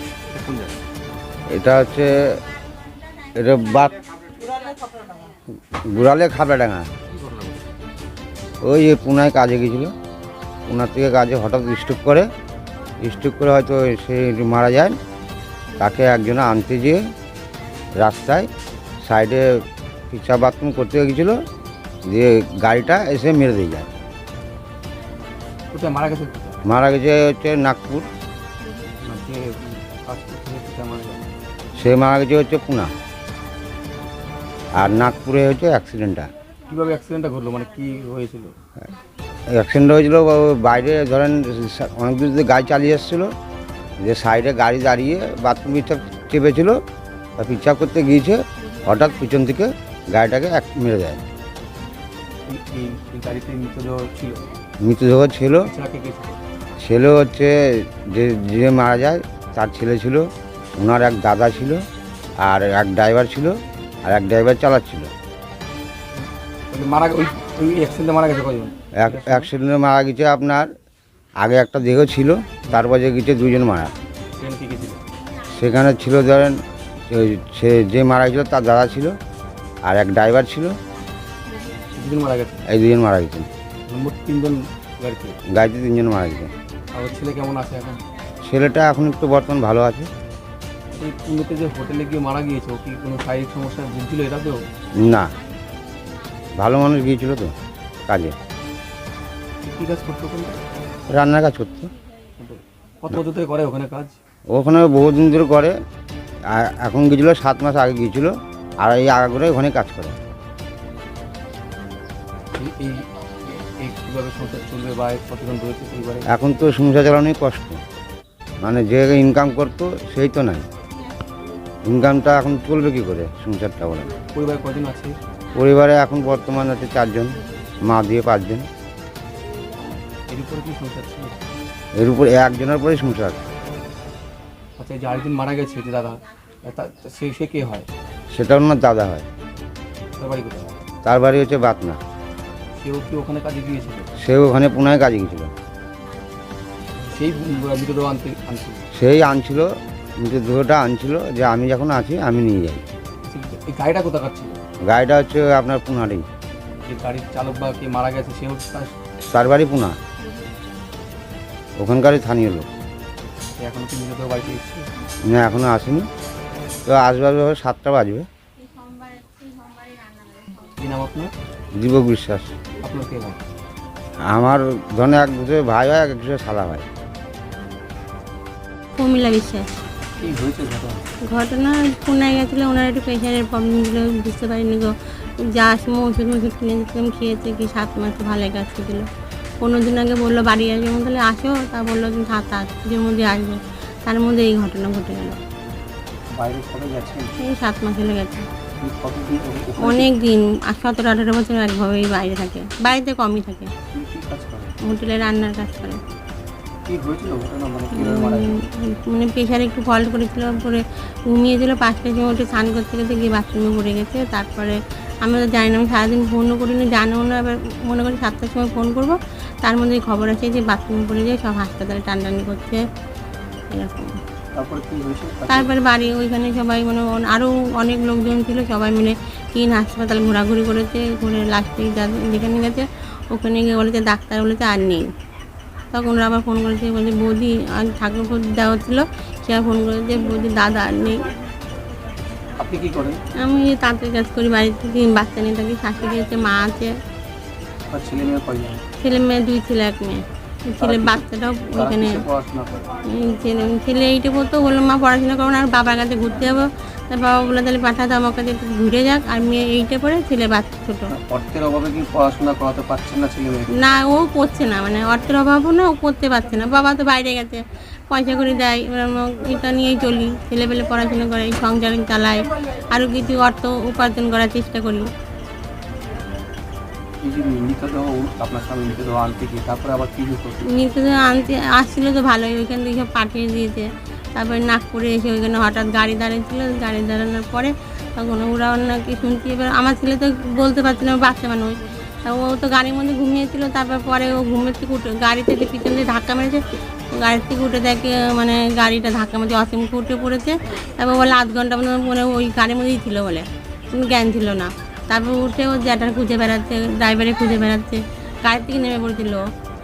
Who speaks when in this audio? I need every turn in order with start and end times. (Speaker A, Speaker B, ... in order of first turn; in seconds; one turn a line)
Speaker A: 0.3-0.7
Speaker B: 1.5-2.2
Speaker B: 3.4-4.0
Speaker B: 5.9-6.9
Speaker B: 8.6-9.9
Speaker B: 10.7-12.3
Speaker B: 13.0-15.0
Speaker B: 15.8-17.0
Speaker B: 17.9-18.5
Speaker B: 19.0-21.4
Speaker B: 22.1-23.9
Speaker A: 25.7-26.6
Speaker B: 26.7-28.1
Speaker A: 29.0-31.3
Speaker B: 31.8-32.9
Speaker B: 34.7-36.3
Speaker A: 36.7-38.6
Speaker B: 39.5-43.3
Speaker B: 44.0-46.8
Speaker B: 47.4-51.2
Speaker A: 52.5-54.5
Speaker B: 54.8-55.7
Speaker A: 55.6-56.4
Speaker B: 56.8-61.9
Speaker B: 62.4-65.1
Speaker A: 66.1-69.5
Speaker B: 69.0-70.7
Speaker B: 71.4-73.9
Speaker A: 74.4-75.0
Speaker B: 75.5-79.2
Speaker B: 79.8-80.8
Speaker A: 81.9-82.6
Speaker B: 82.7-83.5
Speaker A: 83.9-85.4
Speaker B: 85.5-86.5
Speaker A: 86.9-88.0
Speaker B: 88.4-90.1
Speaker A: 90.9-94.7
Speaker B: 95.0-95.3
Speaker B: 96.5-97.5
Speaker B: 98.1-98.4
Speaker A: 99.6-100.6
Speaker B: 101.1-101.9
Speaker A: 102.4-104.2
Speaker B: 104.5-105.8
Speaker B: 106.5-110.2
Speaker A: 112.5-116.3
Speaker B: 116.3-117.8
Speaker B: 118.6-120.7
Speaker B: 121.8-124.1
Speaker A: 124.3-125.2
Speaker B: 125.5-128.7
Speaker A: 130.3-131.4
Speaker B: 131.9-133.4
Speaker A: 134.8-137.9
Speaker B: 138.3-139.2
Speaker A: 140.2-140.8
Speaker B: 141.0-142.0
Speaker A: 142.8-144.1
Speaker B: 144.2-145.5
Speaker A: 146.9-148.8
Speaker B: 148.9-152.8
Speaker A: 153.2-154.6
Speaker B: 154.8-156.2
Speaker A: 156.8-158.9
Speaker B: 159.3-160.0
Speaker B: 161.8-162.7
Speaker A: 163.6-164.9
Speaker B: 165.2-166.1
Speaker B: 166.9-168.3
Speaker A: 170.6-171.3
Speaker B: 171.8-172.5
Speaker A: 172.8-173.4
Speaker B: 174.2-176.9
Speaker C: 179.0-179.7
Speaker A: 180.2-181.0
Speaker C: 181.3-184.9
Speaker C: 185.5-189.1
Speaker C: 189.6-195.4
Speaker A: 196.3-197.3
Speaker C: 197.4-198.5
Speaker A: 198.8-200.1
Speaker C: 199.8-203.7
Speaker A: 203.9-204.8
Speaker C: 204.8-206.0
Speaker A: 206.9-208.5
Speaker C: 207.9-222.8
Speaker C: 223.7-224.1
Speaker A: 224.5-225.7
Speaker C: 225.5-235.0
Speaker C: 235.9-241.3
Speaker A: 242.6-243.2
Speaker C: 243.4-246.9
Speaker A: 247.9-248.8
Speaker C: 249.0-252.2
Speaker A: 250.8-252.8
Speaker C: 253.1-261.1
Speaker A: 261.1-263.7
Speaker C: 263.8-275.1
Speaker A: 277.2-280.6
Speaker C: 280.7-296.6
Speaker C: 297.1-309.4